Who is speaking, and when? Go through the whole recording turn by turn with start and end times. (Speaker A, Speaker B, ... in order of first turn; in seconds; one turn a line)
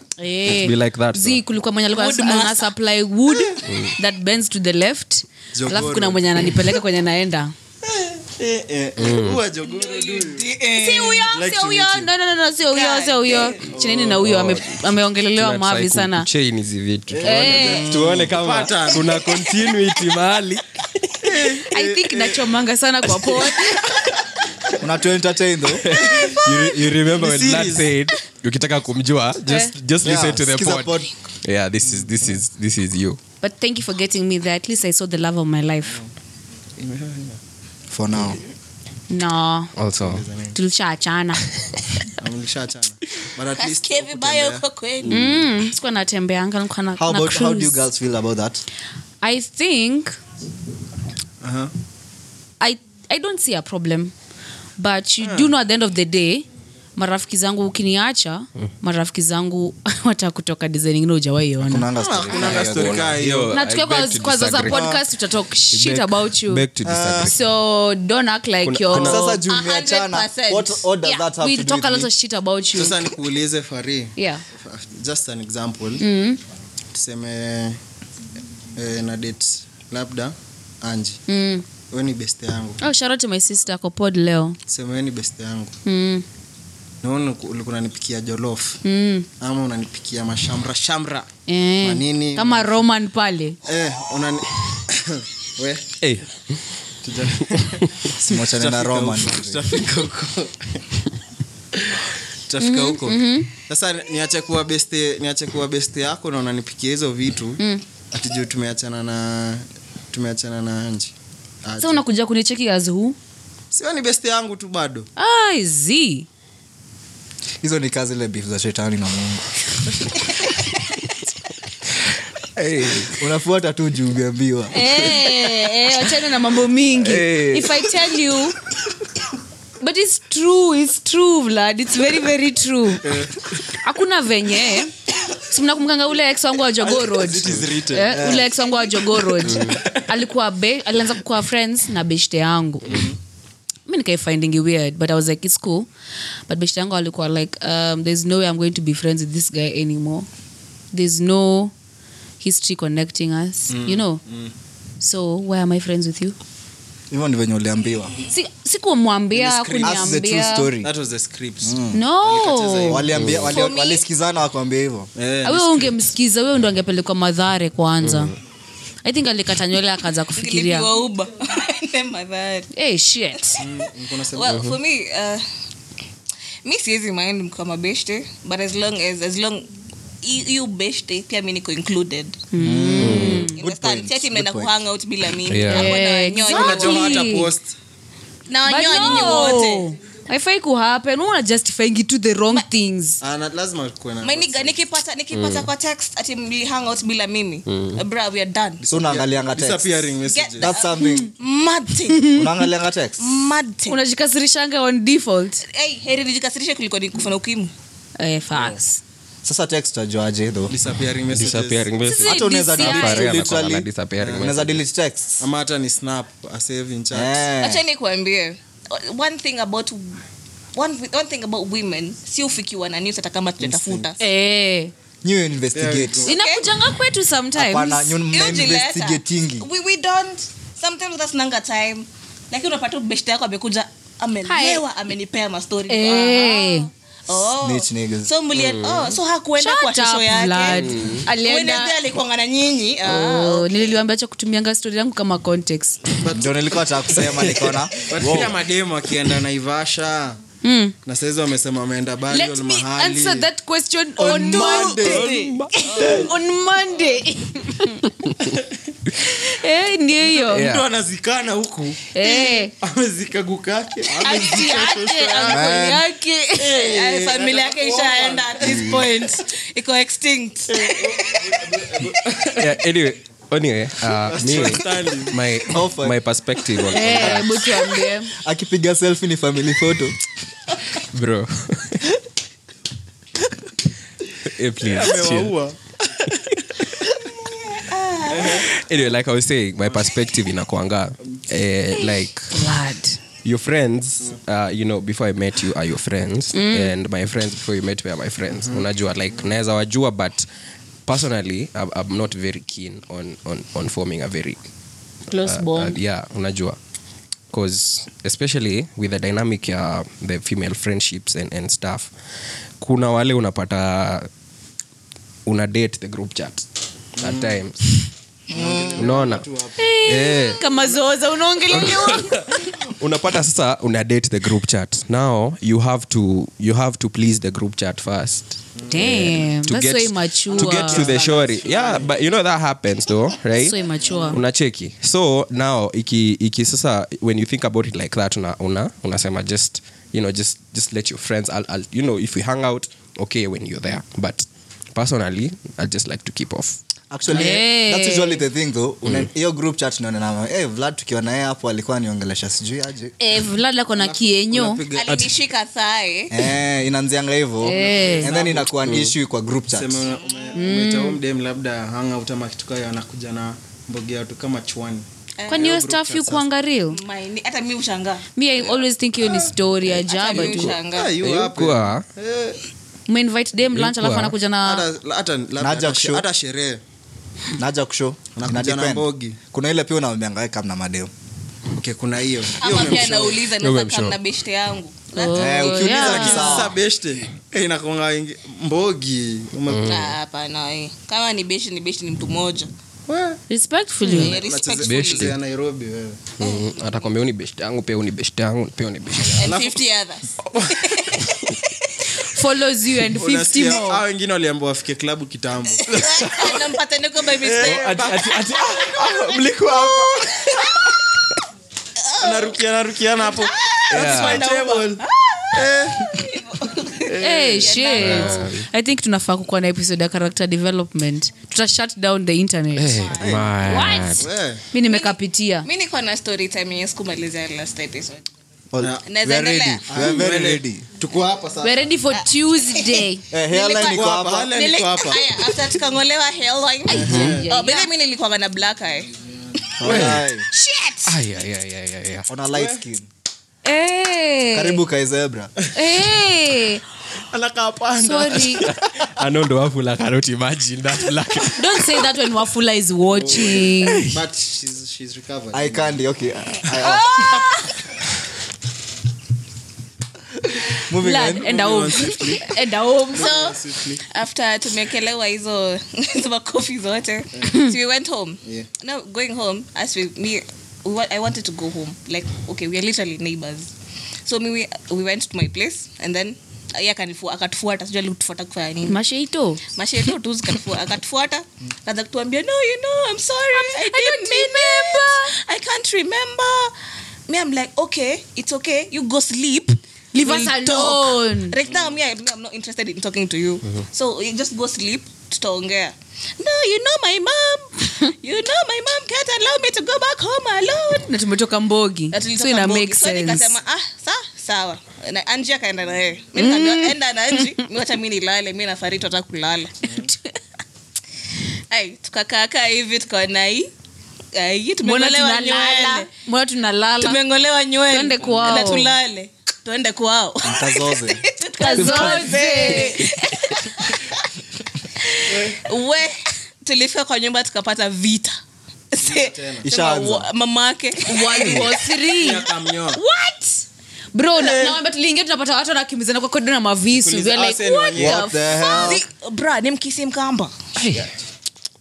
Speaker A: 0.2-7.5
Speaker B: 0.5-1.4
Speaker C: 1.9-2.7
Speaker B: 3.6-3.9
Speaker D: 5.5-6.5
Speaker D: 8.0-10.6
Speaker B: 9.0-9.4
Speaker C: 9.6-11.3
Speaker A: 10.7-16.3
Speaker D: 11.1-12.1
Speaker C: 12.7-13.6
Speaker D: 13.7-14.3
Speaker B: 14.2-14.7
Speaker B: 15.3-21.1
Speaker D: 17.1-19.2
Speaker A: 17.2-17.9
Speaker D: 21.2-22.5
Speaker A: 21.7-23.9
Speaker E: 24.8-25.9
Speaker B: 25.8-33.2
Speaker D: 25.9-27.9
Speaker A: 29.4-29.7
Speaker E: 30.0-31.1
Speaker D: 31.9-32.4
Speaker A: 33.4-36.0
Speaker D: 36.8-37.4
Speaker E: 37.9-38.4
Speaker A: 39.1-39.7
Speaker B: 39.8-40.2
Speaker D: 40.0-40.6
Speaker A: 40.5-41.5
Speaker D: 42.2-44.6
Speaker C: 43.5-45.1
Speaker A: 45.1-47.9
Speaker E: 47.0-48.6
Speaker A: 49.2-50.2
Speaker D: 51.4-51.7
Speaker A: 52.6-54.1
Speaker A: 54.8-61.9
Speaker D: 55.2-55.5
Speaker E: 61.6-63.2
Speaker D: 62.0-63.6
Speaker B: 62.3-64.9
Speaker A: 63.5-66.7
Speaker E: 64.6-65.0
Speaker B: 65.7-67.4
Speaker E: 66.8-67.3
Speaker A: 67.2-69.4
Speaker B: 68.6-69.2
Speaker E: 68.9-72.1
Speaker C: 69.4-70.9
Speaker A: 71.0-73.1
Speaker D: 72.7-76.0
Speaker A: 74.2-74.4
Speaker A: 76.0-76.4
Speaker D: 76.9-77.8
Speaker D: 78.8-81.2
Speaker A: 81.3-81.6
Speaker D: 81.9-82.8
Speaker A: 82.8-84.6
Speaker D: 84.7-85.7
Speaker A: 85.8-86.2
Speaker D: 87.0-88.8
Speaker A: 88.8-89.3
Speaker D: 89.4-91.3
Speaker A: 91.5-93.6
Speaker D: 91.8-92.8
Speaker D: 93.6-95.9
Speaker B: 96.0-96.6
Speaker D: 97.0-100.8
Speaker E: 98.2-99.7
Speaker D: 102.5-107.6
Speaker A: 102.6-103.5
Speaker A: 107.6-107.8
Speaker D: 108.1-112.0
Speaker A: 111.8-113.2
Speaker D: 113.7-115.1
Speaker A: 115.2-116.3
Speaker E: 117.6-119.4
Speaker B: 122.5-123.1
Speaker E: 123.0-125.0
Speaker A: 124.7-128.6
Speaker B: 126.9-127.9
Speaker A: 129.8-143.1
Speaker D: 133.0-133.5
Speaker D: 136.8-138.5
Speaker E: 138.2-138.5
Speaker B: 139.5-139.9
Speaker D: 142.9-143.2
Speaker A: 143.9-145.9
Speaker A: 146.5-150.3
Speaker A: 150.9-151.7
Speaker A: 152.4-154.2
Speaker D: 153.7-154.5
Speaker A: 155.0-156.3
Speaker E: 157.1-158.1
Speaker A: 158.3-160.7
Speaker D: 159.3-160.1
Speaker E: 159.8-160.9
Speaker D: 160.8-163.4
Speaker E: 161.6-162.0
Speaker A: 161.9-163.1
Speaker E: 162.8-165.1
Speaker B: 163.1-163.5
Speaker C: 163.4-164.0
Speaker D: 165.1-166.0
Speaker A: 165.4-168.3
Speaker B: 168.0-168.3
Speaker A: 169.0-170.9
Speaker C: 170.3-172.7
Speaker A: 172.7-173.6
Speaker D: 173.6-174.7
Speaker C: 174.3-175.4
Speaker C: 176.6-179.7
Speaker C: 180.2-182.4
Speaker A: 182.5-183.6
Speaker E: 182.6-184.7
Speaker B: 183.0-183.5
Speaker C: 183.4-187.3
Speaker B: 185.4-185.9
Speaker A: 185.7-187.5
Speaker D: 186.5-187.7
Speaker C: 188.5-189.9
Speaker A: 188.6-193.2
Speaker D: 193.2-194.8
Speaker C: 194.2-198.8
Speaker B: 195.3-195.7
Speaker B: 197.7-198.0
Speaker D: 198.8-200.7
Speaker E: 198.8-201.3
Speaker C: 200.2-202.3
Speaker A: 201.0-201.3
Speaker A: 202.1-202.7
Speaker E: 202.3-203.2
Speaker C: 203.2-204.0
Speaker A: 203.9-205.6
Speaker C: 205.6-207.7
Speaker A: 208.2-209.0
Speaker E: 209.4-210.7
Speaker D: 210.7-211.9
Speaker B: 211.3-214.8
Speaker A: 212.0-213.3
Speaker E: 212.2-215.5
Speaker D: 214.2-214.5
Speaker D: 215.4-217.5
Speaker E: 217.1-217.8
Speaker C: 217.6-220.2
Speaker C: 220.7-224.2
Speaker A: 224.2-224.9
Speaker E: 225.2-226.3
Speaker D: 225.7-226.3
Speaker A: 226.2-228.2
Speaker C: 226.3-226.7
Speaker E: 227.5-229.7
Speaker C: 228.3-244.0
Speaker A: 234.4-234.8
Speaker A: 235.9-236.9
Speaker E: 237.6-238.3
Speaker B: 238.5-239.2
Speaker A: 239.6-241.9
Speaker B: 240.7-241.3
Speaker A: 243.0-246.1
Speaker D: 246.2-246.8
Speaker E: 246.3-247.9
Speaker D: 248.1-250.4
Speaker B: 248.2-248.5
Speaker A: 250.6-250.9
Speaker D: 251.1-253.5
Speaker A: 252.3-258.1
Speaker E: 254.2-255.4
Speaker D: 254.2-256.2
Speaker B: 255.0-256.3
Speaker C: 256.0-256.2
Speaker A: 259.2-260.7
Speaker D: 260.2-265.8
Speaker B: 260.5-260.9
Speaker A: 262.1-262.7
Speaker A: 264.2-266.7
Speaker E: 265.4-266.1
Speaker D: 266.6-269.1
Speaker C: 266.7-271.2
Speaker B: 268.7-268.9
Speaker D: 270.7-272.8
Speaker B: 272.6-277.8
Speaker D: 274.1-275.5
Speaker E: 275.6-276.2
Speaker A: 276.9-278.3
Speaker E: 278.3-280.2
Speaker B: 281.0-282.0
Speaker B: 284.4-285.6
Speaker D: 284.8-286.4
Speaker C: 287.6-288.7
Speaker D: 288.2-288.7
Speaker B: 288.5-292.5
Speaker A: 292.5-293.2
Speaker B: 293.4-300.5
Speaker A: 296.5-296.9
Speaker D: 298.6-298.8
Speaker B: 301.1-304.6
Speaker A: 305.3-306.0
Speaker B: 305.4-306.8
Speaker B: 307.5-312.1
Speaker B: 312.8-314.3
Speaker B: 315.4-316.6
Speaker D: 317.2-317.6
Speaker B: 317.2-318.1
Speaker D: 318.5-320.3
Speaker E: 318.5-319.1
Speaker B: 318.9-319.5
Speaker A: 319.8-322.4
Speaker B: 320.0-320.6
Speaker B: 321.7-333.8
Speaker D: 328.8-329.0
Speaker A: 328.9-331.1
Speaker D: 330.5-332.2
Speaker A: 333.5-334.4
Speaker D: 334.0-334.4
Speaker B: 334.3-346.8
Speaker E: 347.1-353.1
Speaker A: 347.3-348.4
Speaker A: 353.2-354.8
Speaker D: 353.9-355.3
Speaker C: 354.9-356.4
Speaker E: 356.3-360.1
Speaker A: 357.6-358.4
Speaker D: 357.7-359.0
Speaker B: 358.9-359.1
Speaker D: 359.7-366.5
Speaker A: 360.5-361.2
Speaker C: 365.4-365.7
Speaker A: 365.5-367.0
Speaker C: 366.9-368.3
Speaker A: 368.4-370.7
Speaker C: 369.9-371.1
Speaker B: 370.4-372.0
Speaker D: 370.8-372.6
Speaker A: 373.1-374.9
Speaker B: 373.7-374.4
Speaker D: 374.6-376.8
Speaker E: 375.6-376.2
Speaker E: 377.6-381.1
Speaker D: 378.4-379.4
Speaker D: 381.7-383.5
Speaker C: 382.6-386.2
Speaker B: 383.6-384.2
Speaker A: 385.1-386.7
Speaker E: 385.3-386.8
Speaker D: 385.9-390.0
Speaker B: 389.7-390.1
Speaker C: 389.9-392.7
Speaker D: 393.1-393.4
Speaker A: 393.5-394.4
Speaker C: 394.0-395.3
Speaker D: 394.1-396.2
Speaker B: 394.8-395.4
Speaker B: 396.4-399.4
Speaker C: 396.4-397.1
Speaker C: 399.3-401.3
Speaker D: 399.4-399.8
Speaker D: 400.5-401.0
Speaker A: 402.2-404.0
Speaker D: 403.1-406.0
Speaker B: 405.9-406.6
Speaker C: 405.9-408.1
Speaker D: 407.4-408.4
Speaker B: 407.6-410.7
Speaker C: 408.8-410.6
Speaker C: 412.0-412.6
Speaker D: 412.2-415.0
Speaker C: 413.2-418.5
Speaker B: 413.9-414.5
Speaker D: 415.5-416.2
Speaker B: 417.1-418.7
Speaker A: 417.2-425.7
Speaker B: 422.8-424.3
Speaker C: 423.0-423.5
Speaker D: 423.2-423.6
Speaker D: 424.2-424.6
Speaker C: 424.8-428.2
Speaker E: 428.7-430.9
Speaker D: 428.8-429.1
Speaker C: 429.1-429.9
Speaker D: 429.9-431.8
Speaker A: 431.6-433.2
Speaker C: 432.2-439.1
Speaker E: 433.3-434.6
Speaker D: 433.7-435.5
Speaker D: 436.9-437.5
Speaker A: 436.9-437.9
Speaker B: 436.9-437.4
Speaker E: 439.8-440.5
Speaker D: 439.8-440.2
Speaker B: 439.8-440.2
Speaker C: 440.0-441.1
Speaker B: 441.1-442.3
Speaker E: 442.3-443.1
Speaker D: 442.5-442.8
Speaker A: 443.6-444.8
Speaker E: 444.5-445.5
Speaker A: 445.7-446.8
Speaker D: 447.3-449.1
Speaker A: 448.0-448.7
Speaker B: 448.6-452.1
Speaker A: 451.5-454.1
Speaker D: 453.1-456.0
Speaker B: 453.8-454.2
Speaker E: 455.5-457.2
Speaker A: 456.9-457.6
Speaker E: 460.8-461.5
Speaker A: 460.9-463.3
Speaker D: 461.3-462.6
Speaker D: 463.1-464.0
Speaker C: 463.1-473.7
Speaker C: 474.2-479.0
Speaker A: 478.9-479.6
Speaker C: 479.7-486.7
Speaker A: 483.5-485.4
Speaker C: 487.3-501.1
Speaker A: 490.1-491.6
Speaker D: 491.6-491.9
Speaker A: 501.1-503.5
Speaker C: 502.1-509.9
Speaker A: 506.4-507.5
Speaker D: 509.9-510.1
Speaker C: 511.7-513.7
Speaker C: 514.3-516.1
Speaker A: 514.8-517.2
Speaker C: 517.0-524.2
Speaker A: 517.9-518.9
Speaker D: 518.2-518.7
Speaker E: 520.4-522.3
Speaker A: 521.6-523.1
Speaker C: 525.0-528.4
Speaker D: 525.2-525.6
Speaker C: 528.9-531.6
Speaker D: 529.0-529.6
Speaker E: 529.6-530.3
Speaker A: 531.0-539.0
Speaker D: 531.5-533.0
Speaker D: 534.4-534.8
Speaker D: 536.9-538.4
Speaker E: 537.9-539.0
Speaker C: 538.6-540.5
Speaker A: 540.8-541.0